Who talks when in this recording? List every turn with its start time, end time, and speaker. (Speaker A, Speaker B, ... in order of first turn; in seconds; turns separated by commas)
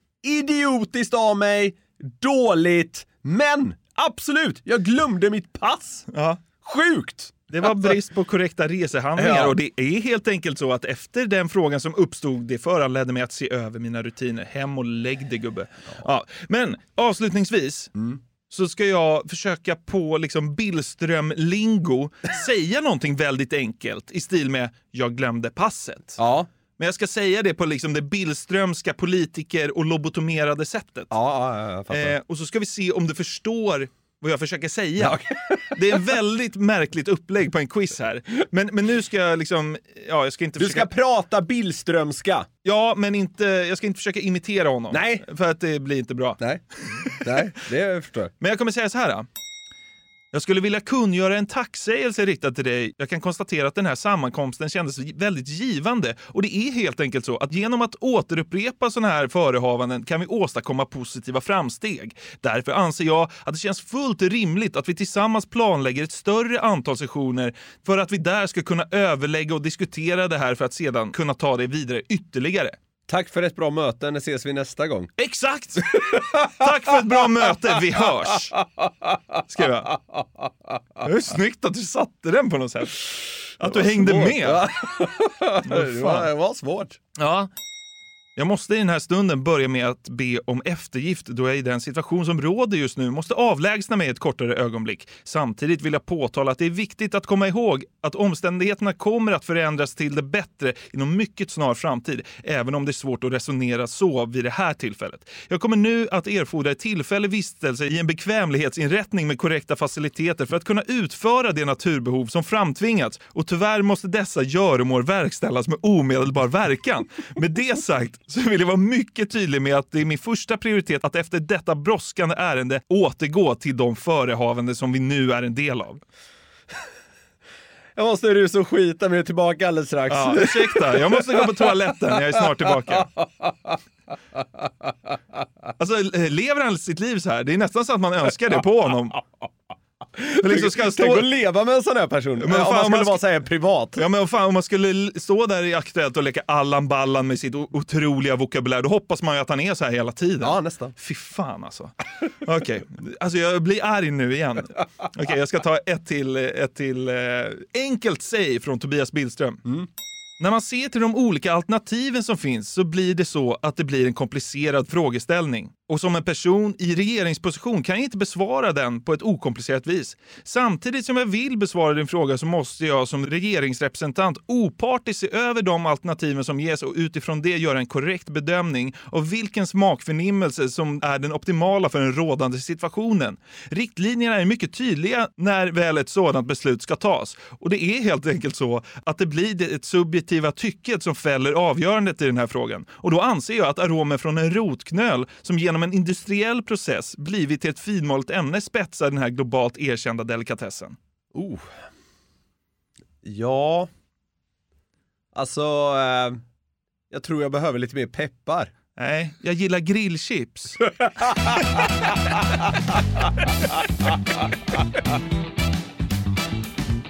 Speaker A: 0.2-6.1, Speaker B: 6.1-6.4, Speaker A: 6.6-8.0, Speaker B: 7.5-17.9, Speaker A: 9.2-9.5, Speaker B: 18.5-26.2, Speaker A: 26.2-26.5, Speaker B: 26.8-31.1, Speaker A: 31.1-32.1, Speaker B: 31.9-35.2, Speaker A: 35.0-36.0, Speaker B: 35.7-40.9, Speaker A: 40.6-42.5, Speaker B: 42.6-46.4, Speaker A: 44.9-45.2, Speaker B: 46.9-47.4, Speaker A: 47.2-48.3, Speaker B: 48.4-49.3, Speaker B: 50.3-72.8, Speaker A: 73.1-75.1, Speaker B: 75.2-78.5, Speaker A: 75.9-76.9, Speaker B: 79.5-79.9, Speaker B: 81.0-84.6, Speaker A: 83.6-87.0, Speaker B: 85.7-86.3, Speaker B: 87.2-87.5, Speaker B: 88.3-126.0, Speaker A: 128.0-131.7, Speaker B: 130.1-133.1, Speaker A: 132.9-133.7, Speaker B: 135.8-139.2, Speaker A: 140.2-144.0, Speaker B: 140.4-141.3, Speaker B: 142.4-143.2, Speaker B: 144.0-159.6, Speaker A: 150.4-150.9, Speaker B: 160.4-200.9, Speaker A: 201.3-201.7, Speaker A: 203.2-203.9, Speaker A: 205.3-206.4, Speaker A: 207.1-208.7, Speaker B: 209.0-210.8, Speaker A: 211.0-211.8